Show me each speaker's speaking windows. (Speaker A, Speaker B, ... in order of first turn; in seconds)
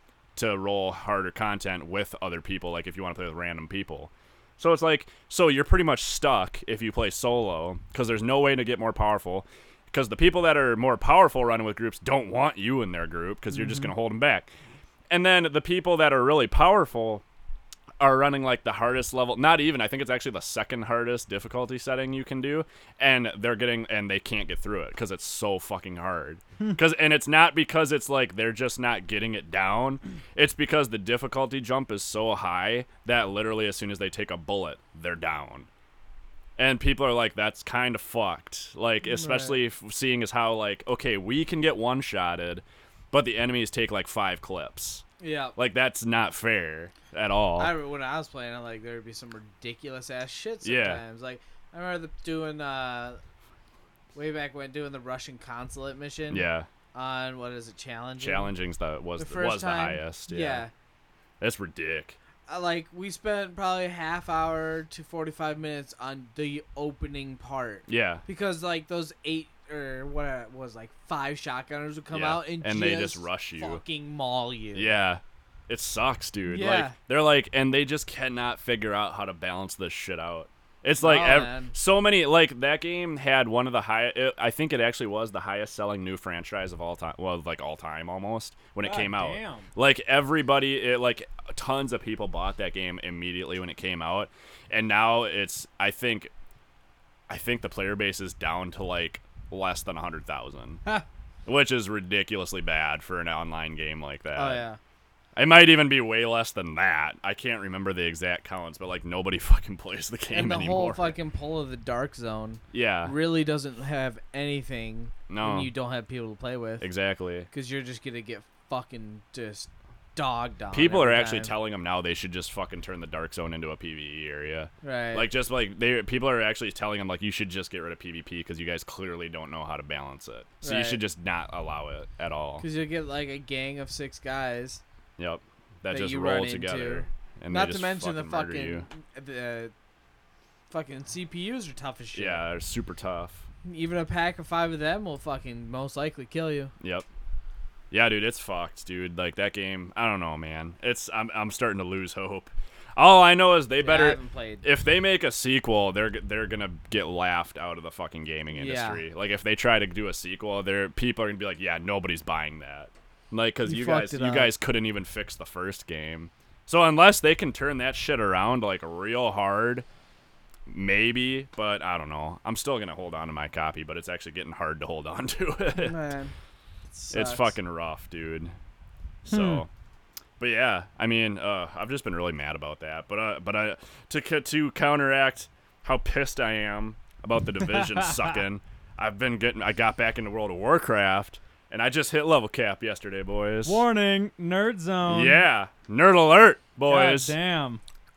Speaker A: 0.3-14.5, 15.1-17.2, 18.0-35.7, 36.6-45.0, 45.5-47.7, 50.6-51.0, 56.3-56.7, 58.2-60.6, 61.4-62.2, 67.9-68.2, 72.1-73.8, 74.7-96.3, 97.3-100.8, 101.5-104.6, 105.3-111.1, 112.7-113.1, 115.3-115.7, 116.8-117.5, 120.7-132.6, 135.2-138.9, 142.1-143.4, 146.8-147.1, 147.9-169.9, 170.7-175.9, 177.1-178.6, 179.2-179.7, 180.4-193.8, 195.1-197.4
Speaker B: 39.0-39.6, 45.2-45.5, 47.6-53.2, 54.1-58.5, 59.2-60.7, 62.5-75.0, 76.5-77.0, 81.0-81.7, 104.3-104.8, 110.3-116.9, 117.5-121.5, 124.8-125.3, 130.6-131.0, 132.6-134.8, 135.9-139.7, 140.7-142.4, 143.6-146.7, 153.8-154.6, 158.5-159.0, 163.6-164.5, 175.7-176.3, 176.9-177.6
Speaker C: 88.8-89.7, 179.3-179.6, 187.6-188.2, 193.6-195.4, 196.9-197.8